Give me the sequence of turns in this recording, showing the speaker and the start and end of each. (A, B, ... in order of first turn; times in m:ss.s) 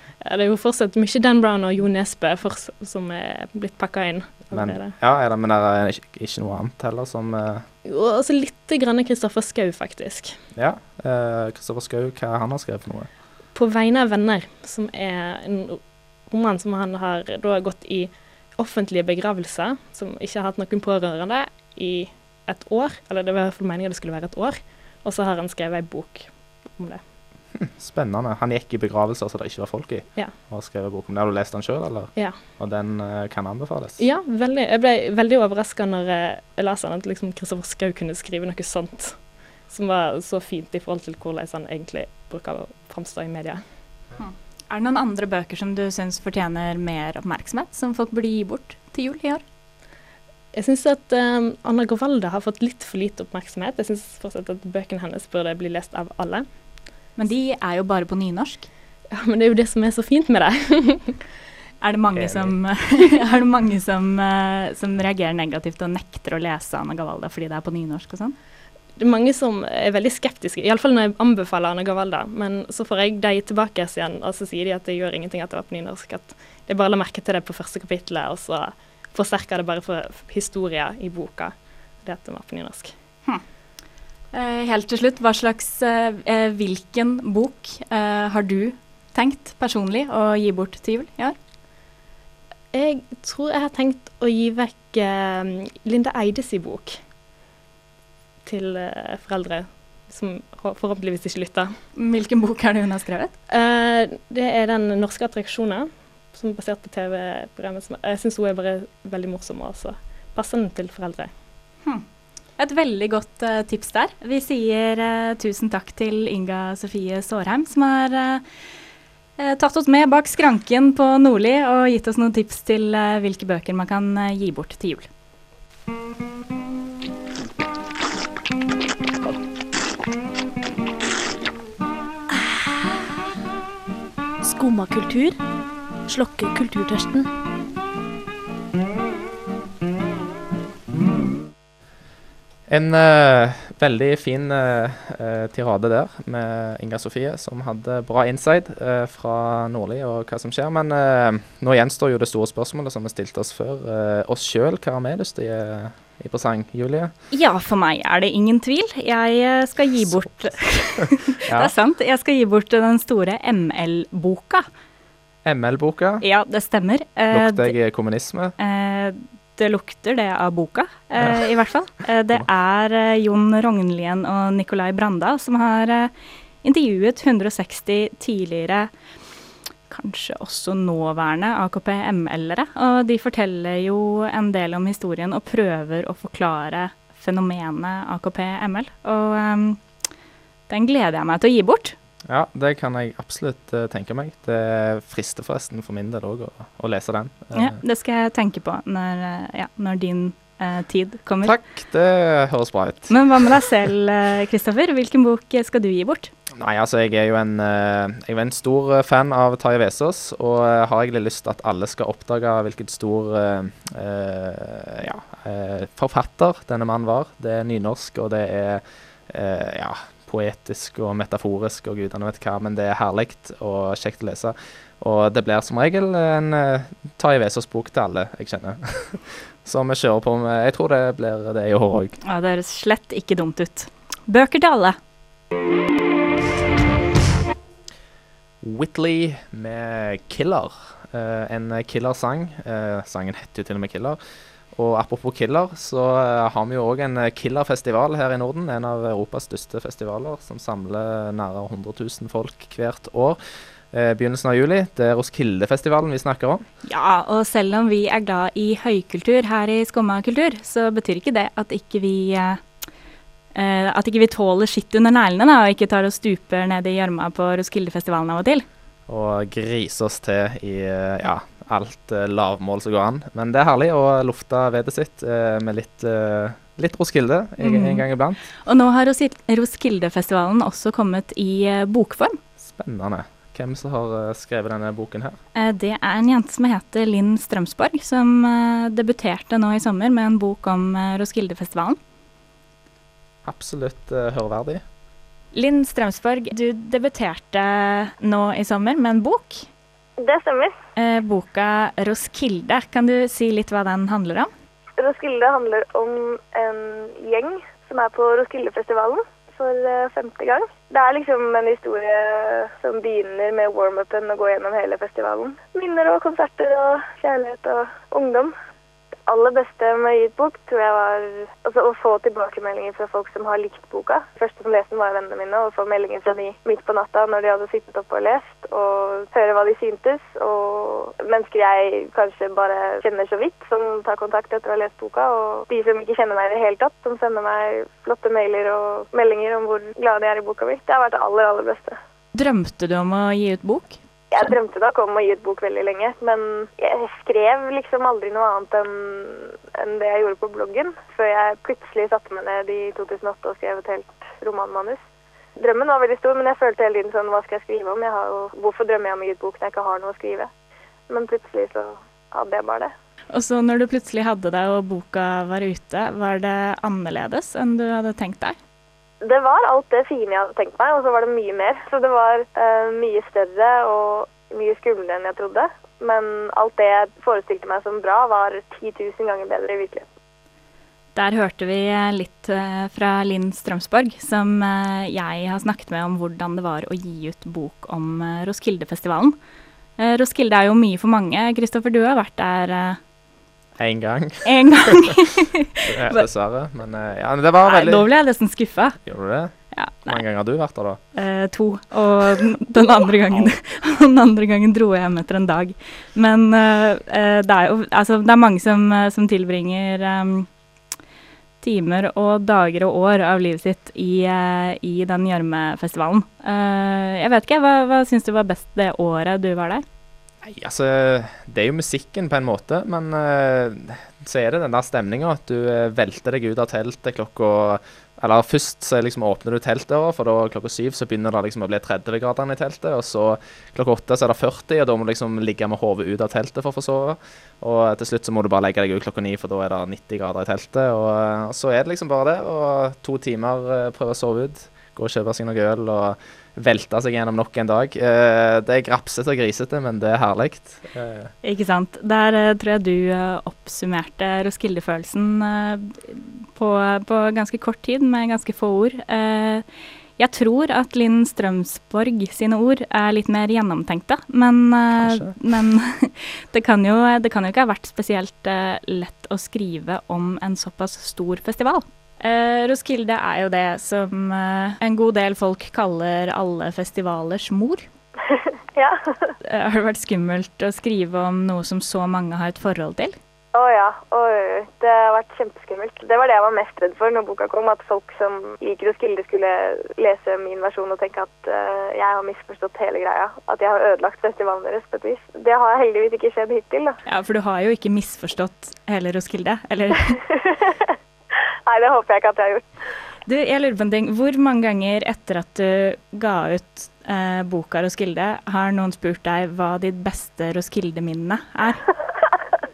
0:00.2-0:05.0 A
0:04.5-0:07.6 B
0:07.8-0:10.4 A
0:10.5-0:13.1 B
0:13.5-0:27.0 A
0:27.5-0:34.0 B
0:32.2-0:32.4 A
0:34.0-0:43.6 A
0:44.2-0:49.4 C
0:50.5-0:56.6 A
0:57.2-0:58.7 C
0:59.1-1:01.2 A
1:01.8-1:08.3 C
1:02.1-1:02.6 B
1:09.0-1:22.9 A
1:24.3-1:31.4 C
1:32.7-1:37.0 A
1:38.4-1:41.8 A
1:42.0-1:43.3 C
1:43.5-1:51.3 A
1:52.6-1:58.4 C
1:59.4-2:05.1 C
2:14.4-2:15.4 D
2:16.0-2:17.3 D
2:22.7-2:37.1 B
2:37.3-2:44.6 C
2:40.1-2:41.7 B
2:45.4-2:46.2 B
2:46.2-2:47.7 C
2:47.3-2:48.5 B
2:48.6-2:56.1 C
2:51.2-2:51.4 B
2:56.6-2:58.9 C
2:59.9-3:09.8 C
3:10.7-3:11.9 C
3:12.3-3:17.8 B
3:17.5-3:21.5 C
3:21.4-3:23.2 B
3:23.1-3:26.3 C
3:26.5-3:52.2 B
3:52.2-3:55.0 C
3:58.6-4:04.2 B
4:04.7-4:16.6 B
4:16.8-4:22.6 C
4:23.5-4:28.6 C
4:29.1-4:38.4 B
4:37.6-4:38.0 C
4:38.6-4:42.4 C
4:42.6-4:45.4 B
4:45.5-4:52.0 C
4:53.4-4:54.8 B
4:55.5-4:59.7 C
5:00.2-5:00.7 E
5:01.0-5:04.5 C
5:05.0-5:18.5 E
5:19.3-5:42.0 E
5:42.3-5:44.5 C
5:44.3-5:55.0 E
5:55.6-6:00.5 E
6:01.1-6:02.9 E
6:03.3-6:08.6 C
6:09.2-6:20.1 E
6:21.1-6:29.3 C
6:30.0-6:33.0 C
6:33.8-6:35.2 B
6:34.4-6:36.2 C
6:35.8-6:38.1 B
6:37.6-6:39.0 C
6:39.0-6:39.5 B
6:39.7-6:40.2 C
6:40.0-6:41.0 B
6:41.1-6:50.5 C
6:51.6-6:59.8 C
7:00.4-7:31.3 B
7:31.4-7:39.6 C
7:40.2-7:57.8 C
7:45.0-7:45.3 B
7:58.3-7:59.3 E
7:59.4-8:03.2 C
8:03.5-8:17.0 E
8:17.0-8:20.2 C
8:20.4-8:21.0 E
8:21.7-8:22.7 E
8:23.3-8:31.8 C